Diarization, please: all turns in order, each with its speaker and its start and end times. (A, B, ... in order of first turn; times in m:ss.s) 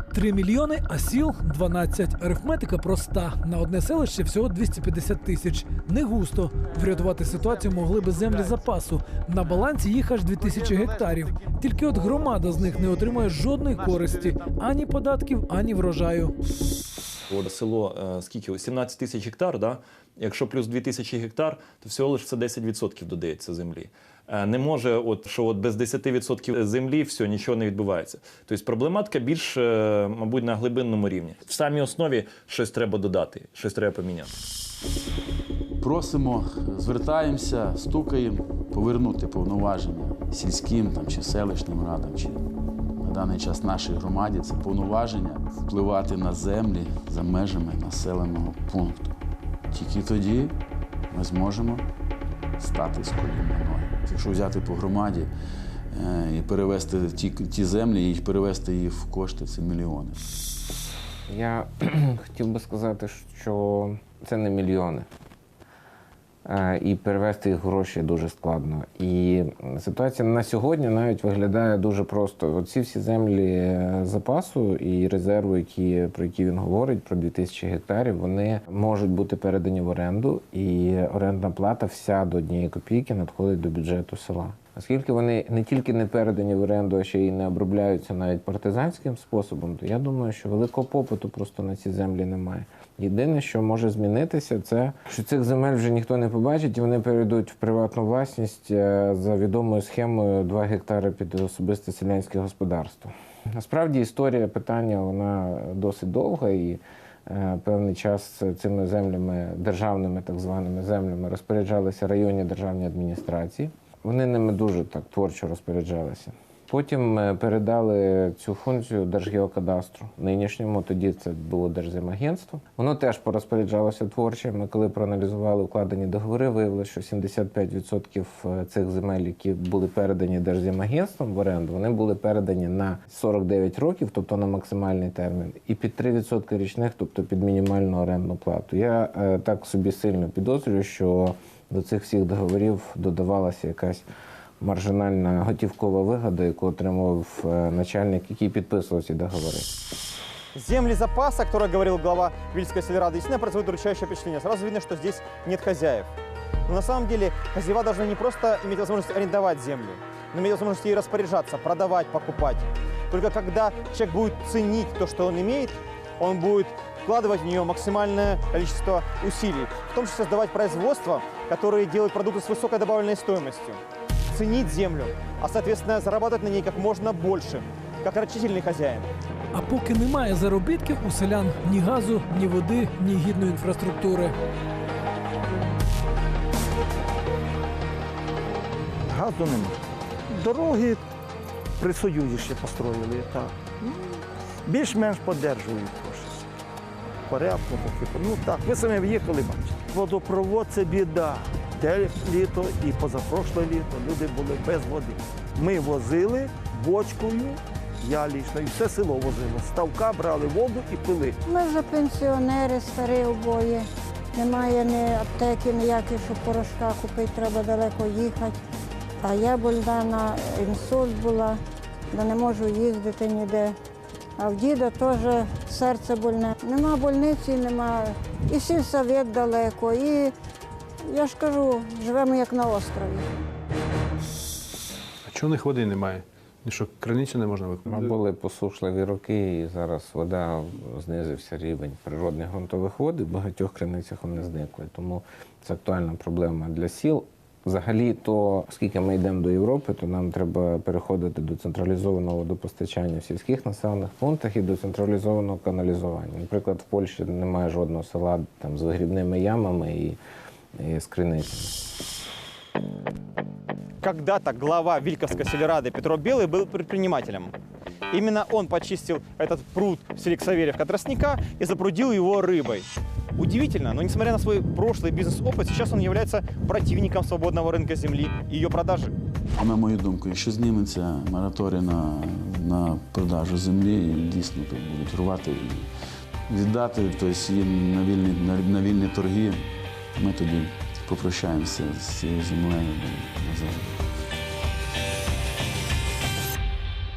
0:00.1-0:16.3 A
0:17.3-0:34.4 B
0:35.8-0:42.4 C
0:43.0-0:49.2 C
0:49.7-0:50.6 C
0:51.1-0:51.8 C
0:52.6-0:55.3 C
0:55.9-1:00.2 C
1:01.3-1:05.1 D
1:06.4-2:24.0 D
2:24.6-2:29.7 D
2:30.5-2:36.1 E
2:36.7-2:59.1 E
2:59.5-3:04.3 A
3:09.1-3:11.0 F
3:11.8-3:14.0 F
3:14.6-3:16.5 F
3:17.3-3:31.4 F
3:31.4-3:38.6 G
3:39.2-3:41.6 G
3:42.1-3:43.8 G
3:44.4-3:50.3 G
3:51.0-3:53.3 G
3:55.3-3:57.8 H
3:57.8-4:20.2 D
4:20.8-4:21.8 D
4:24.0-4:27.5 E
4:28.1-4:39.1 E
4:39.6-4:45.9 C
4:46.5-4:49.6 C
4:50.2-4:54.0 C